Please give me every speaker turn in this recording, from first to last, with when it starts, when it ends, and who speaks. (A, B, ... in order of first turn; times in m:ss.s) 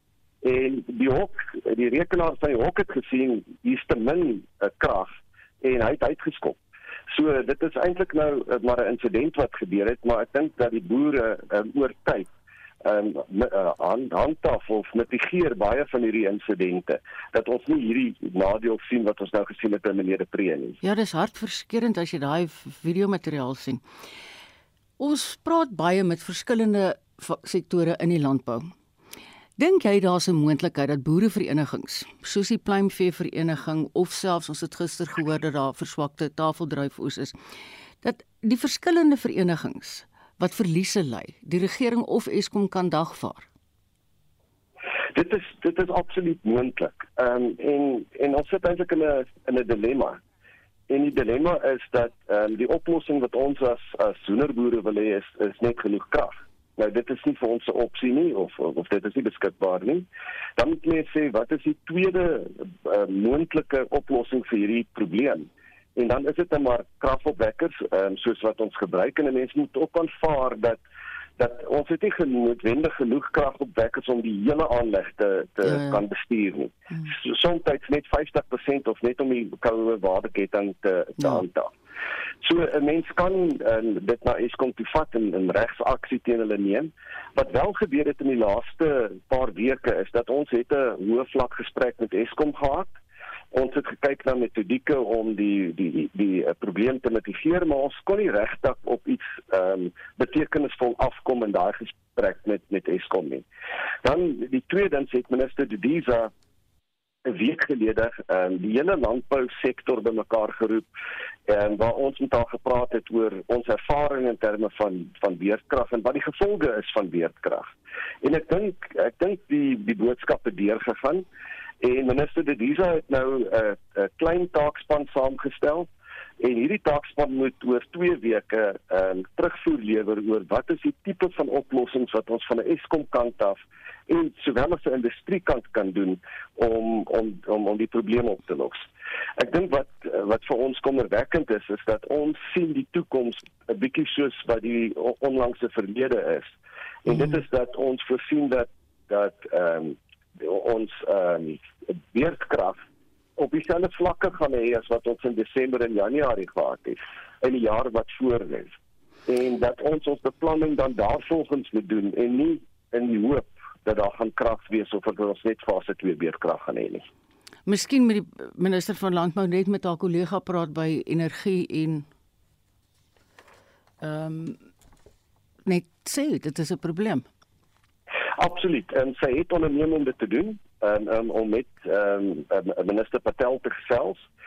0:00.4-0:06.6 A
0:07.1-0:12.3 A
0:12.8-0:20.8 A
0:20.8-0:23.8 B
0:25.0-0:28.7 B
0:29.6-0:37.3 B
0:38.0-0:43.5 B
0:45.1-0:50.2 A
0:50.9-1:10.8 A
1:11.4-1:21.7 A
1:15.6-1:16.0 B
1:21.2-1:21.4 B
1:22.4-1:32.9 A
1:33.5-1:43.4 A
1:44.0-1:46.3 A
1:47.2-1:50.8 A
1:51.5-1:57.7 A
1:58.2-2:01.2 A
2:01.8-2:05.9 A
2:06.4-2:18.8 A
2:19.4-2:26.5 A
2:27.0-2:32.8 A
2:27.1-2:27.4 B
2:33.4-2:38.7 A
2:39.3-2:47.0 A
2:47.6-2:52.1 B
2:54.0-2:54.6 B
2:55.6-2:57.3 B
2:58.4-3:04.3 A